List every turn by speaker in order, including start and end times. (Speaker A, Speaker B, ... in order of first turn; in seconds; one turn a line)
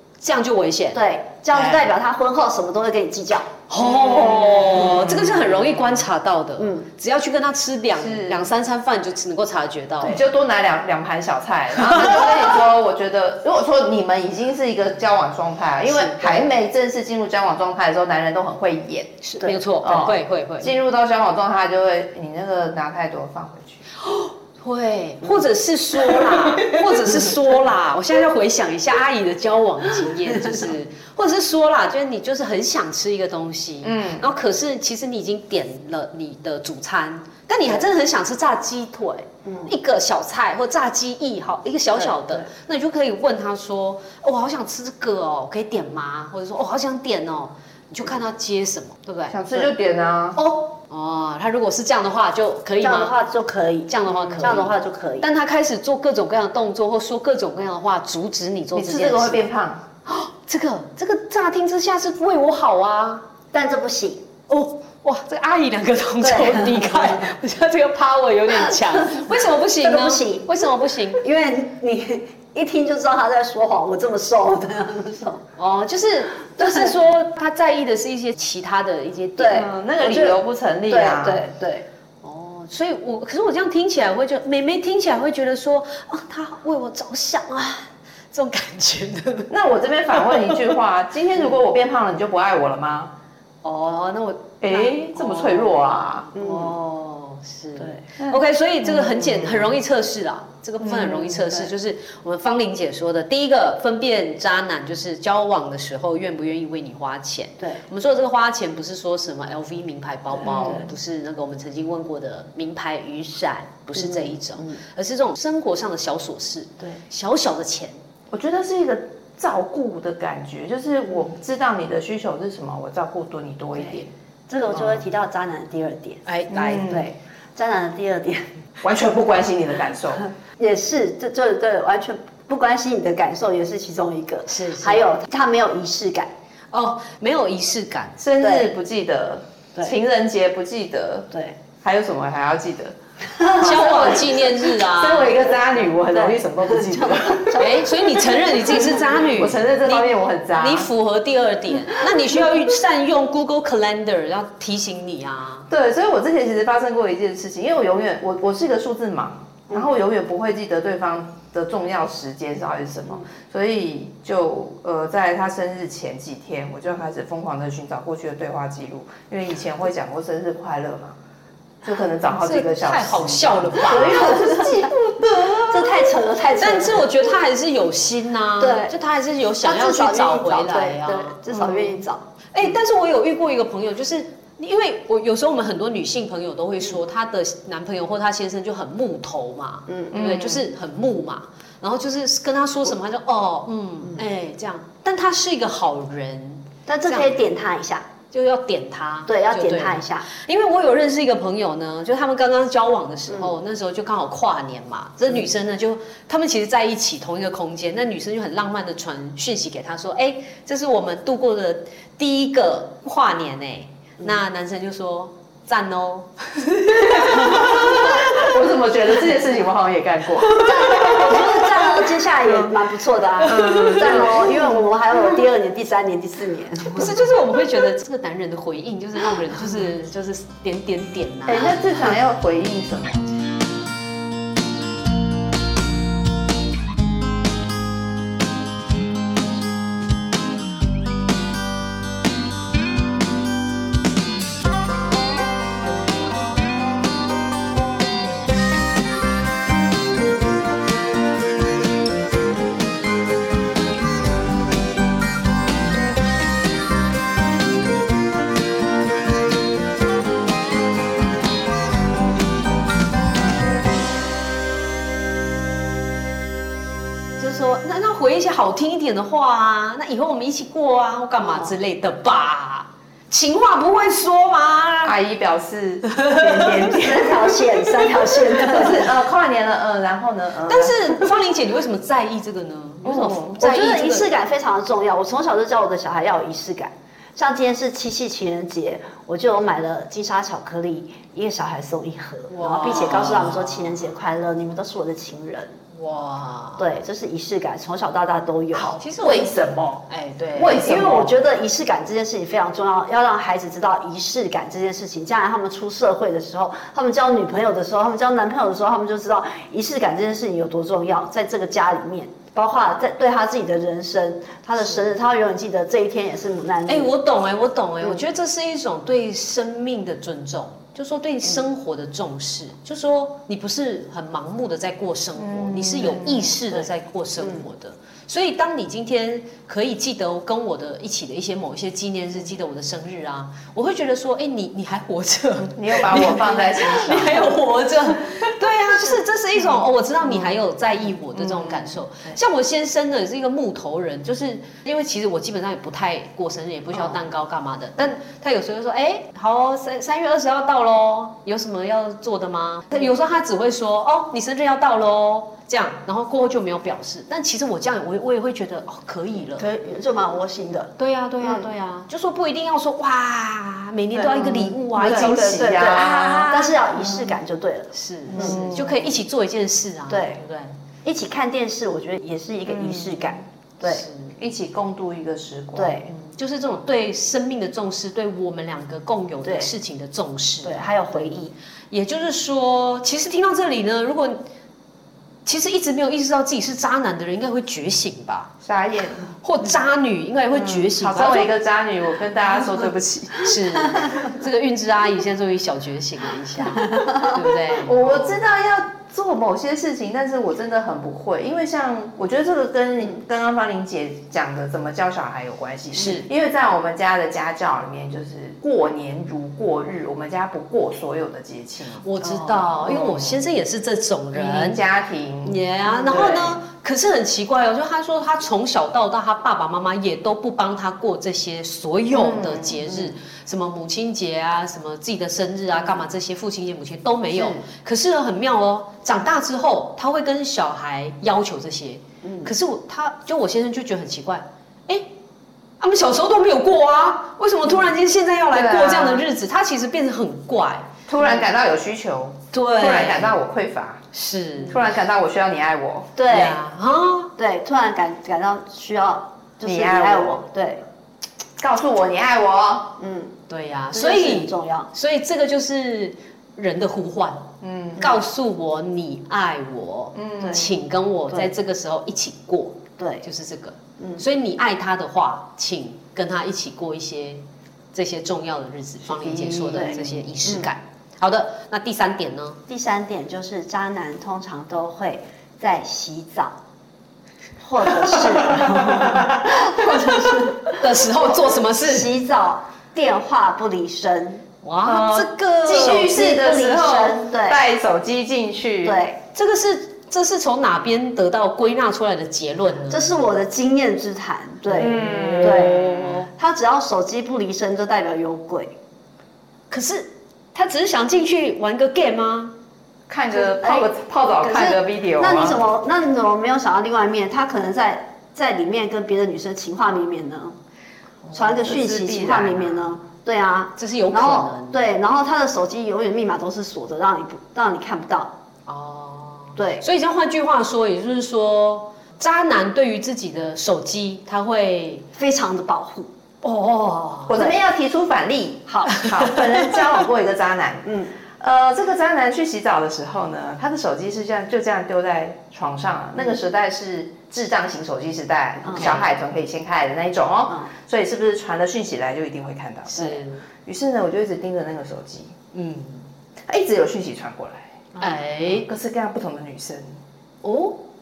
Speaker A: 0.2-1.0
Speaker B: 0.9-3.5
Speaker A: 1.5-1.9
Speaker A: 3.7-10.2
Speaker C: 3.9-5.5
Speaker B: 6.6-6.9
Speaker C: 8.0-8.5
Speaker C: 10.0-19.2
Speaker A: 19.2-20.7
Speaker C: 19.8-23.8
Speaker A: 24.0-49.7
Speaker C: 33.8-34.3
Speaker B: 39.5-39.7
Speaker B: 42.0-42.5
Speaker C: 49.3-50.4
Speaker A: 50.4-53.1
Speaker B: 52.8-55.3
Speaker A: 53.9-59.4
Speaker C: 54.2-54.5
Speaker C: 58.8-59.9
Speaker A: 60.1-63.2
Speaker B: 63.5-64.3
Speaker A: 64.5-71.2
Speaker B: 66.2-67.3
Speaker B: 69.1-70.5
Speaker B: 71.2-75.4
Speaker A: 75.6-79.7
Speaker B: 76.6-76.9
Speaker B: 79.4-81.9
Speaker C: 79.5-81.4
Speaker A: 82.2-89.5
Speaker C: 89.5-93.1
Speaker A: 90.1-90.6
Speaker A: 93.6-118.0
Speaker C: 94.6-96.3
Speaker B: 96.3-96.8
Speaker C: 100.8-101.5
Speaker B: 110.4-110.9
Speaker C: 110.5-110.8
Speaker B: 113.9-114.8
Speaker C: 118.3-124.1
Speaker B: 123.8-126.2
Speaker C: 124.7-125.0
Speaker A: 126.3-126.9
Speaker C: 126.5-127.1
Speaker B: 126.8-128.5
Speaker C: 128.8-130.3
Speaker B: 130.6-136.3
Speaker A: 134.5-135.1
Speaker A: 136.7-138.2
Speaker C: 138.2-141.3
Speaker B: 138.4-138.7
Speaker B: 141.3-141.6
Speaker C: 141.8-147.7
Speaker B: 143.4-144.0
Speaker A: 143.5-145.5
Speaker B: 146.0-149.0
Speaker A: 147.6-155.7
Speaker C: 148.8-150.9
Speaker C: 155.7-171.2
Speaker C: 171.8-175.5
Speaker A: 172.3-181.4
Speaker B: 173.8-174.9
Speaker B: 175.7-177.1
Speaker B: 178.6-179.0
Speaker B: 179.6-182.2
Speaker C: 181.5-181.9
Speaker A: 182.5-197.4
Speaker B: 189.9-190.2
Speaker C: 190.1-190.6
Speaker B: 196.9-198.1
Speaker A: 198.3-218.1
Speaker B: 199.3-200.3
Speaker C: 216.9-221.7
Speaker B: 217.4-218.2
Speaker B: 220.5-227.2
Speaker C: 223.4-224.8
Speaker A: 223.5-224.4
Speaker A: 226.9-231.8
Speaker C: 231.5-233.3
Speaker A: 267.4-275.2
Speaker C: 275.0-281.3
Speaker A: 276.2-276.7
Speaker B: 276.6-279.1
Speaker A: 280.7-284.3
Speaker C: 283.0-283.6
Speaker B: 283.6-295.8
Speaker A: 292.5-293.9
Speaker A: 295.9-296.9
Speaker B: 296.8-299.0
Speaker C: 298.8-301.3
Speaker A: 298.8-300.8
Speaker B: 300.8-317.1
Speaker A: 316.9-359.7
Speaker C: 325.4-326.5
Speaker C: 335.6-337.6
Speaker C: 341.4-342.0
Speaker B: 359.6-361.7
Speaker A: 361.0-367.2
Speaker B: 364.1-368.6
Speaker C: 364.9-366.5
Speaker A: 367.9-370.8
Speaker C: 368.3-369.1
Speaker B: 370.1-370.4
Speaker B: 371.0-374.1
Speaker C: 372.7-373.4
Speaker A: 373.8-374.4
Speaker C: 374.4-376.0
Speaker B: 375.8-376.1
Speaker A: 376.1-381.4
Speaker B: 379.4-379.7
Speaker B: 380.6-381.6
Speaker A: 381.9-384.4
Speaker A: 385.4-388.5
Speaker C: 388.6-389.3
Speaker A: 389.4-391.5
Speaker C: 390.5-393.6
Speaker A: 393.4-398.4
Speaker B: 396.9-397.2
Speaker C: 397.7-412.1
Speaker A: 405.9-406.3
Speaker A: 412.0-414.8
Speaker C: 412.7-413.4
Speaker C: 414.3-416.6
Speaker A: 415.4-435.1
Speaker B: 415.9-416.4
Speaker C: 422.1-423.0
Speaker B: 432.2-432.5
Speaker A: 435.8-440.9
Speaker C: 438.5-439.2
Speaker C: 441.1-444.0
Speaker A: 442.5-443.4
Speaker A: 444.1-444.8
Speaker C: 444.7-446.1
Speaker B: 446.2-446.6
Speaker A: 446.3-447.3
Speaker B: 447.4-450.8
Speaker C: 449.6-450.4
Speaker C: 451.6-452.9
Speaker B: 453.0-453.4
Speaker A: 453.5-472.6
Speaker B: 453.9-454.9
Speaker C: 457.6-458.1
Speaker C: 460.1-460.7
Speaker B: 463.0-463.2
Speaker B: 464.0-464.2
Speaker C: 469.1-470.1
Speaker B: 469.7-470.7
Speaker B: 472.7-476.6
Speaker B: 477.6-484.4
Speaker C: 478.0-480.0
Speaker A: 480.6-482.1
Speaker A: 484.6-486.1
Speaker C: 484.9-489.0
Speaker B: 485.7-487.6
Speaker B: 488.8-489.2
Speaker A: 489.3-493.1
Speaker B: 492.9-498.7
Speaker C: 494.7-496.2
Speaker A: 494.8-496.3
Speaker A: 499.7-502.5
Speaker C: 503.1-505.6
Speaker B: 503.3-503.9
Speaker B: 504.4-510.6
Speaker B: 511.3-518.3
Speaker C: 511.6-512.9
Speaker A: 513.8-514.9
Speaker A: 518.7-525.1
Speaker B: 519.6-519.9
Speaker B: 525.2-526.1
Speaker A: 526.4-527.4
Speaker C: 527.3-545.4
Speaker B: 527.3-527.6
Speaker B: 528.7-529.0
Speaker A: 528.9-529.8
Speaker B: 530.9-531.1
Speaker B: 538.6-539.0
Speaker A: 538.7-539.0
Speaker A: 542.9-543.4
Speaker A: 545.5-546.0
Speaker C: 546.5-547.8
Speaker A: 548.0-548.7
Speaker C: 548.5-550.0
Speaker A: 550.4-550.8